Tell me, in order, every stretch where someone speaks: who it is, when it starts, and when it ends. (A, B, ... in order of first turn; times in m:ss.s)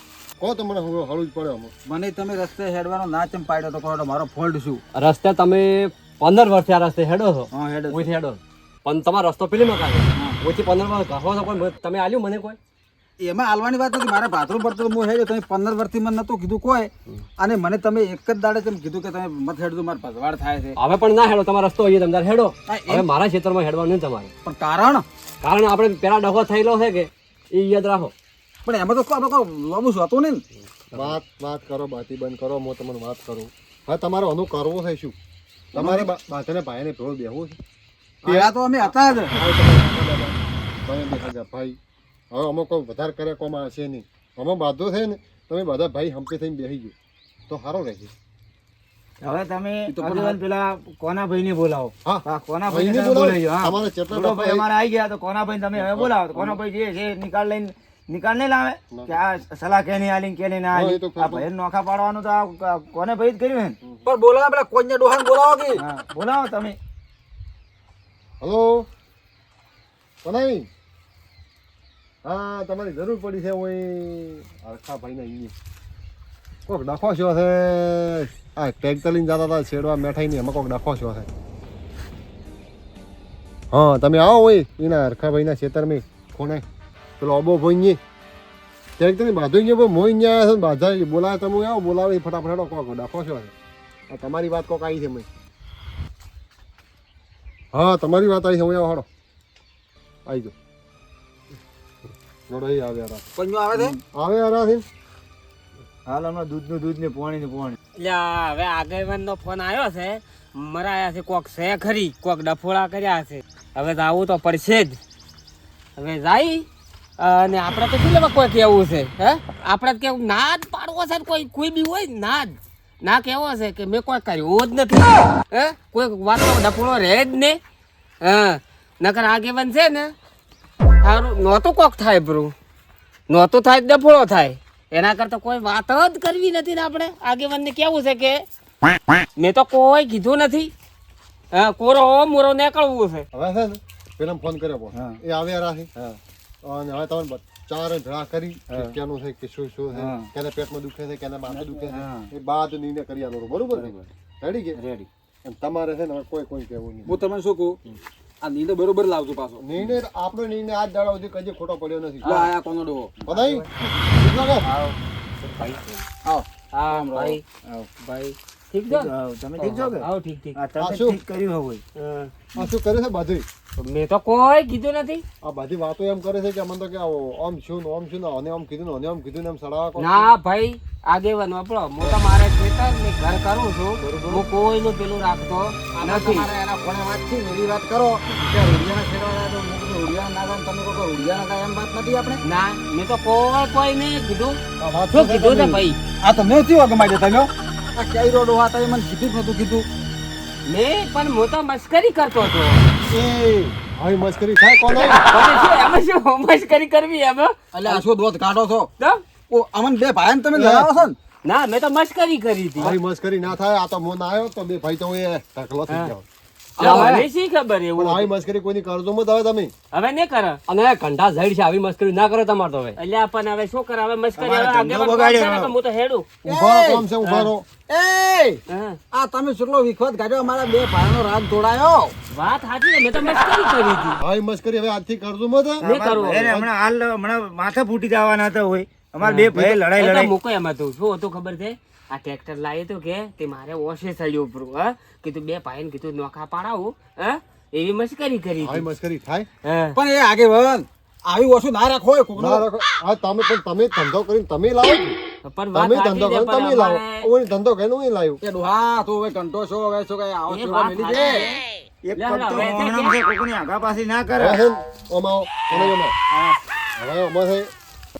0:00.4-0:01.7 A
0:01.9-0:04.8 B
0:05.0-0:12.6 C
0:07.5-0:08.1 B
0:13.2-0:20.8 B
0:20.8-0:24.3 C
0:22.7-0:23.1 B
0:24.4-0:25.0 B
0:25.4-0:28.1 C
0:28.7-0:30.4 B
0:30.9-0:35.2 A
0:35.8-0:37.6 A
0:35.8-0:36.1 B
0:38.2-0:39.4 B
0:38.2-0:40.4 A
0:40.9-0:41.8 A
0:42.3-0:46.9 A
0:47.5-0:48.1 A
0:49.2-1:03.8 D
0:49.9-0:50.4 B
0:52.0-0:54.7 A
0:55.8-0:56.1 A
0:58.9-0:59.2 A
1:00.7-1:01.5 A
1:04.0-1:05.8 B
1:05.8-1:06.8 D
1:08.4-1:08.9 A
1:10.2-1:10.7 A
1:12.2-1:15.5 A
1:16.7-1:21.3 A
1:23.7-1:26.6 A
1:27.2-1:28.0 A
1:29.0-1:33.5 A
1:34.1-1:35.3 A
1:37.7-1:39.1 A
1:40.3-1:40.5 A
1:42.5-1:43.2 A
1:43.4-1:44.0 B
1:44.1-1:44.8 A
1:46.1-1:47.8 D
1:48.0-1:55.0 E
1:56.0-1:56.7 E
1:57.2-2:07.6 E
2:08.2-2:10.1 E
2:11.0-2:12.5 E
2:13.3-2:18.4 E
2:19.4-2:20.7 E
2:21.5-2:23.2 E
2:23.3-2:25.9 A
2:24.9-2:25.2 D
2:26.6-2:34.8 A
2:28.7-2:29.0 D
2:29.9-2:30.3 D
2:31.5-2:32.3 D
2:34.8-2:35.1 D
2:35.4-2:37.2 A
2:37.1-2:37.8 B
2:38.4-2:39.6 B
2:39.6-2:42.4 A
2:42.2-2:43.2 B
2:43.3-2:44.7 A
2:43.3-2:43.6 E
2:45.4-2:46.0 E
2:46.3-2:47.4 B
2:46.7-2:47.4 E
2:48.0-2:50.6 E
2:48.9-2:50.0 D
2:50.6-2:51.8 D
2:50.8-2:51.2 A
2:52.0-2:52.5 E
2:52.6-2:53.4 A
2:53.8-2:55.2 E
2:55.4-3:00.3 A
3:00.0-3:06.5 E
3:06.0-3:12.4 B
3:12.4-3:14.6 E
3:14.8-3:15.8 A
3:15.1-3:16.0 E
3:16.2-3:19.9 B
3:20.7-3:22.8 E
3:23.1-3:25.2 A
3:24.9-3:28.0 E
3:27.7-3:28.9 B
3:29.5-3:31.2 B
3:30.6-3:30.9 A
3:31.4-3:33.0 E
3:32.8-3:36.2 A
3:36.8-3:37.3 C
3:36.8-3:38.3 E
3:36.9-3:37.1 A
3:38.0-3:39.7 A
3:39.9-3:40.6 E
3:40.7-3:43.0 C
3:43.0-3:46.3 E
3:44.4-3:45.7 B
3:46.4-3:47.7 A
3:46.4-3:47.1 B
3:47.9-3:48.6 B
3:48.7-3:49.0 E
3:49.1-3:52.1 B
3:52.3-3:54.2 E
3:54.2-3:55.9 A
3:55.8-4:00.3 D
3:55.8-3:56.7 E
3:59.2-4:08.8 E
4:08.6-4:09.5 A
4:09.6-4:10.0 E
4:10.0-4:12.7 B
4:12.4-4:15.2 A
4:15.4-4:17.3 E
4:15.7-4:18.4 A
4:18.4-4:21.5 B
4:20.5-4:21.6 E
4:22.0-4:24.6 D
4:22.2-4:23.2 E
4:24.4-4:26.1 A
4:25.7-4:26.6 D
4:27.0-4:27.7 A